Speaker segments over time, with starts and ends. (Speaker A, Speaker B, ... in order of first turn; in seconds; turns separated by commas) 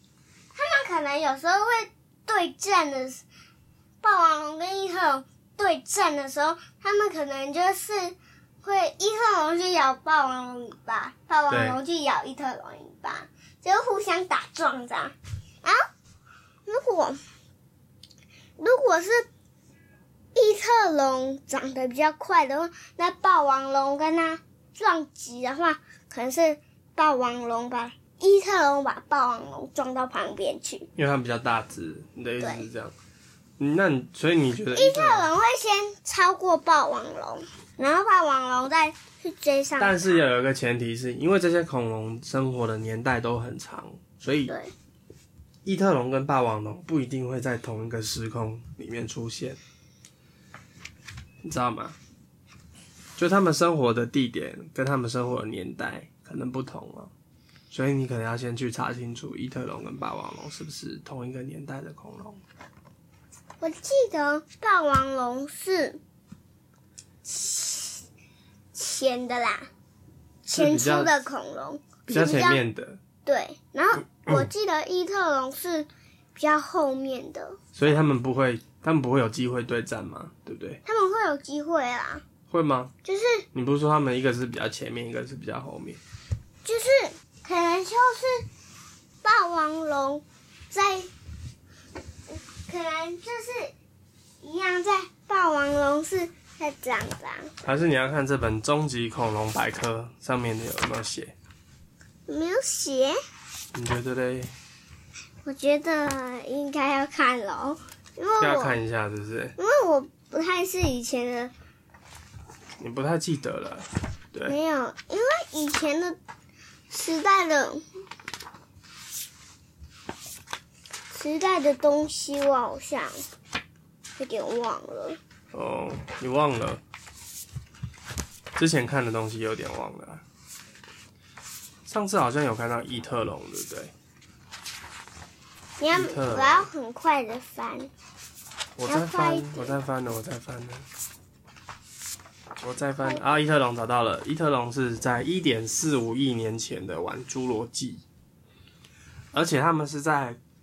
Speaker A: 0.5-3.2, Speaker A: 4.0-15.8, Speaker B: 11.5-11.8, Speaker A: 16.7-17.2, Speaker A: 18.6-19.2, Speaker A: 20.3-30.9, Speaker B: 30.9-32.9, Speaker A: 32.4-32.7, Speaker B: 33.6-35.3, Speaker A: 34.7-40.2, Speaker B: 39.8-44.5, Speaker A: 44.5-44.7, Speaker B: 45.6-49.6, Speaker B: 51.4-52.0, Speaker B: 53.2-57.1, Speaker B: 57.7-62.4, Speaker A: 63.6-66.0, Speaker A: 67.2-68.0, Speaker A: 68.7-69.7, Speaker A: 70.4-72.6, Speaker B: 70.5-71.1, Speaker B: 72.1-73.0, Speaker A: 73.2-77.7, Speaker B: 77.7-80.8, Speaker A: 80.8-82.2, Speaker B: 82.5-82.9, Speaker A: 83.0-83.5, Speaker B: 83.5-86.0, Speaker A: 86.6-88.5, Speaker A: 89.2-91.1, Speaker A: 92.3-93.7, Speaker A: 94.4-97.5, Speaker B: 97.6-101.3, Speaker A: 102.3-103.2, Speaker B: 103.7-104.5, Speaker A: 105.4-108.8, Speaker B: 108.4-109.5, Speaker A: 109.6-111.5, Speaker B: 112.8-114.5, Speaker A: 114.5-116.2, Speaker A: 116.9-117.8, Speaker A: 121.1-123.2, Speaker A: 124.2-125.2, Speaker B: 125.5-126.8, Speaker B: 128.5-130.2, Speaker B: 131.9-133.9, Speaker A: 135.8-137.9, Speaker B: 135.9-136.7, Speaker B: 138.8-140.8, Speaker A: 138.8-139.8, Speaker B: 142.6-148.0, Speaker B: 149.3-150.4